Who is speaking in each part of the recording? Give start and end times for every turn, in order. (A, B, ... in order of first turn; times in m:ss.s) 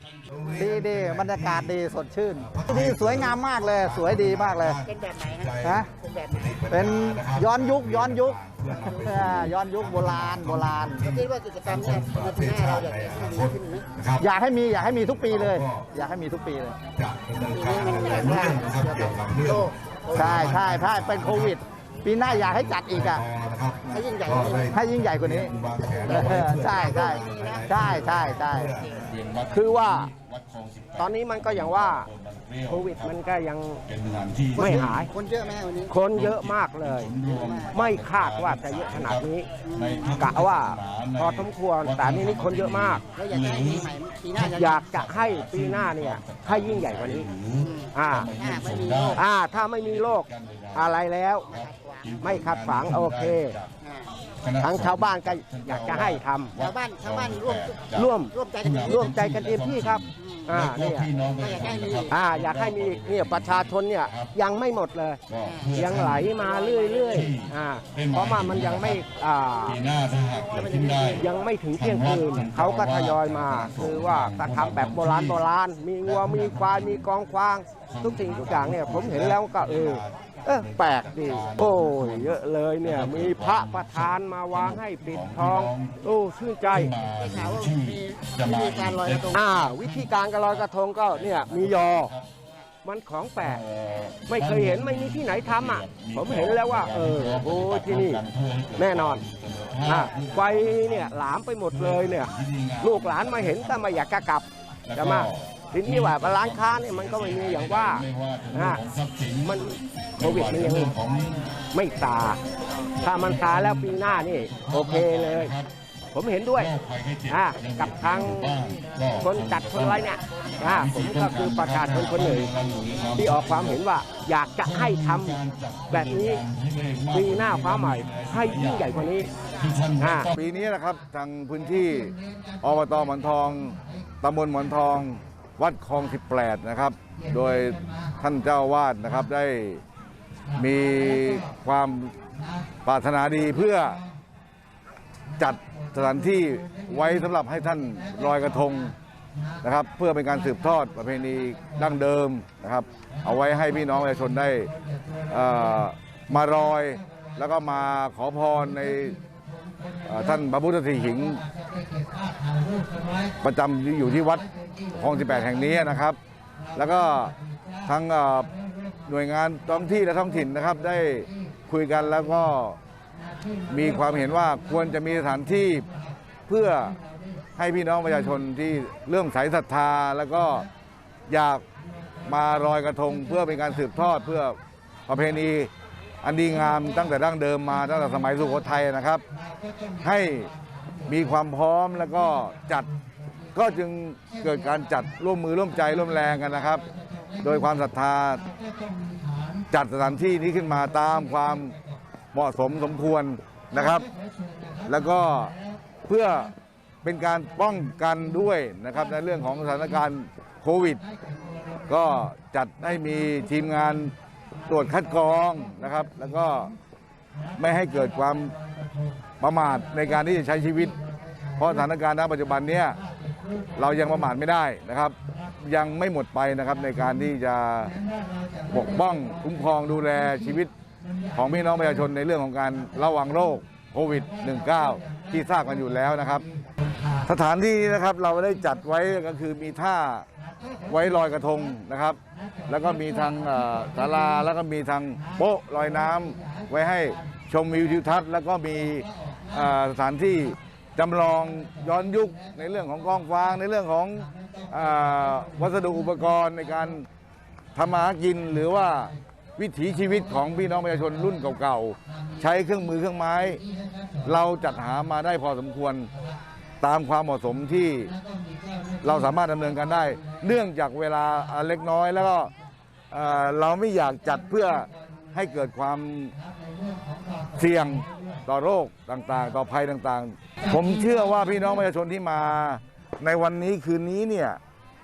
0:00.3-0:01.6 A
0:00.6-0:04.8 B
0:02.4-0:14.3 A
0:04.8-0:06.4 C
0:05.6-0:05.9 B
0:06.7-0:11.0 B
0:11.1-0:13.9 C
0:14.2-0:16.8 B
0:15.0-0:15.9 A
0:16.9-0:21.6 A
0:17.5-0:20.2 C
0:20.1-0:23.2 B
0:22.2-0:33.2 A
0:23.9-0:24.7 C
0:24.6-0:25.5 B
0:26.0-0:28.8 B
0:26.8-0:27.6 C
0:29.5-0:30.1 D
0:31.0-0:32.1 D
0:32.7-0:33.8 D
0:33.9-0:35.1 A
0:34.6-0:35.9 C
0:34.6-0:35.1 D
0:35.8-0:39.5 D
0:36.1-0:53.7 A
0:37.3-0:37.7 C
0:39.7-0:40.2 C
0:40.1-0:43.0 D
0:43.1-0:44.8 C
0:44.4-0:47.3 D
0:47.6-0:49.2 C
0:47.8-0:48.3 D
0:49.1-0:51.6 D
0:51.6-0:52.3 C
0:52.2-0:53.6 D
0:54.4-1:04.3 A
0:54.6-0:56.6 D
0:56.6-0:59.0 C
0:57.9-0:58.4 D
0:58.9-1:01.1 D
1:00.2-1:00.5 C
1:01.4-1:02.1 C
1:02.1-1:05.2 D
1:05.3-1:06.5 A
1:05.4-1:05.8 C
1:05.7-1:09.8 D
1:06.6-1:07.0 C
1:07.0-1:09.0 A
1:09.7-1:15.4 A
1:10.6-1:11.2 C
1:11.2-1:26.9 D
1:16.0-1:17.1 A
1:17.9-1:26.0 A
1:26.7-1:32.3 A
1:27.2-1:29.4 C
1:29.3-1:32.1 D
1:32.8-1:33.6 D
1:33.4-1:44.1 A
1:34.3-1:38.2 D
1:38.8-1:39.2 D
1:39.8-1:42.3 D
1:42.8-1:48.8 D
1:44.9-1:49.6 A
1:49.4-1:51.0 D
1:50.2-1:51.5 A
1:51.7-1:52.4 D
1:53.0-1:55.5 D
1:53.3-1:55.7 A
1:56.1-1:56.7 D
1:56.6-2:00.1 A
1:57.3-1:58.6 D
1:59.2-2:02.5 D
2:00.6-2:03.8 A
2:03.1-2:06.4 D
2:04.6-2:10.3 A
2:07.1-2:09.3 D
2:10.0-2:10.3 D
2:10.3-2:19.8 E
2:20.5-2:22.2 E
2:22.8-2:24.0 E
2:25.4-2:29.0 E
2:29.6-2:34.7 E
2:35.3-2:39.2 E
2:40.0-2:41.4 E
2:43.4-2:46.2 E
2:46.7-2:47.3 E
2:47.8-2:48.5 E
2:49.1-2:52.8 E
2:53.7-2:55.9 E
2:56.5-2:57.0 E
2:57.6-3:00.7 E
3:01.3-3:01.6 E
3:02.2-3:05.7 E
3:06.2-3:09.2 E
3:10.0-3:10.5 E
3:11.1-3:12.9 E
3:13.5-3:16.8 E
3:17.4-3:18.5 E
3:19.7-3:21.7 E
3:22.3-3:24.1 E
3:24.8-3:26.5 E
3:27.0-3:31.0 E
3:31.9-3:34.1 E
3:34.7-3:36.7 E
3:37.6-3:38.6 E
3:39.4-3:41.0 E
3:41.6-3:43.0 E
3:43.8-3:48.0 E
3:48.7-3:50.7 E
3:51.3-3:56.4 E
3:57.2-4:00.2 E
4:00.9-4:17.1 E
4:17.7-4:23.6 E
4:24.2-4:26.1 E
4:26.8-4:28.1 E
4:29.0-4:32.5 E
4:33.1-4:36.4 E
4:37.5-4:44.6 E